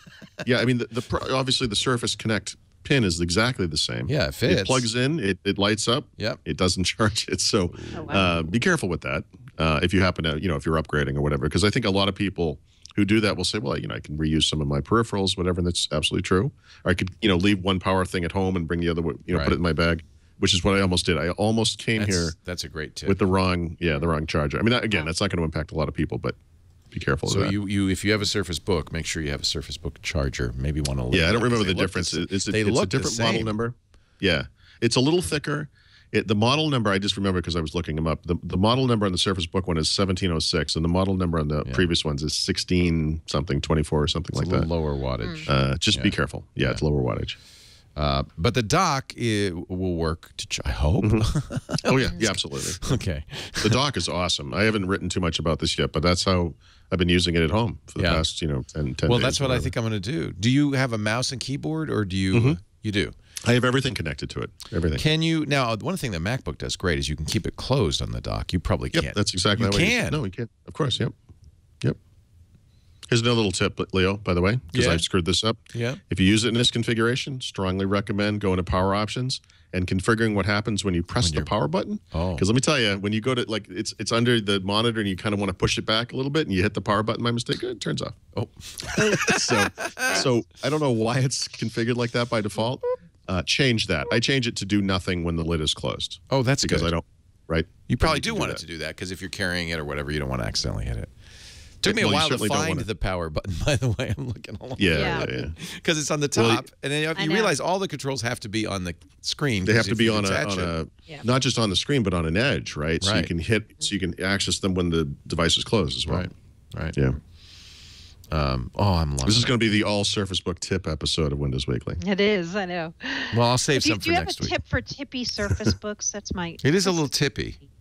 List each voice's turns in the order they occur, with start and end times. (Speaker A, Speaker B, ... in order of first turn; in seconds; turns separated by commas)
Speaker A: 0.4-22.4, Speaker B: 4.1-4.9, Speaker B: 7.7-8.4, Speaker C: 7.9-8.2, Speaker B: 19.3-19.6, Speaker B: 21.9-23.2, Speaker A: 23.1-26.4, Speaker A: 26.9-27.5, Speaker B: 27.3-33.5, Speaker A: 31.1-44.7, Speaker B: 41.6-41.9, Speaker B: 44.3-46.8, Speaker A: 45.5-47.4, Speaker B: 47.9-53.8, Speaker A: 51.0-51.3, Speaker A: 51.8-52.9, Speaker A: 53.6-59.7, Speaker B: 58.0-58.3, Speaker B: 59.0-63.1, Speaker A: 62.3-62.6, Speaker A: 63.4-65.0, Speaker B: 64.9-70.2, Speaker A: 68.9-71.1, Speaker A: 73.1-88.2, Speaker B: 74.7-75.0, Speaker B: 75.7-76.0, Speaker B: 81.2-81.5, Speaker B: 82.1-82.5, Speaker B: 88.3-90.2, Speaker A: 89.0-98.6, Speaker B: 96.3-96.9, Speaker B: 97.9-101.1, Speaker B: 101.8-110.7, Speaker A: 101.8-102.8, Speaker A: 104.8-105.5, Speaker C: 104.9-105.3, Speaker A: 106.3-106.7, Speaker C: 107.2-107.5, Speaker A: 109.6-116.3, Speaker B: 113.0-113.3, Speaker B: 116.1-117.0, Speaker B: 118.3-119.5, Speaker A: 119.2-122.0, Speaker C: 122.0-127.0, Speaker B: 123.3-124.6, Speaker B: 126.6-127.6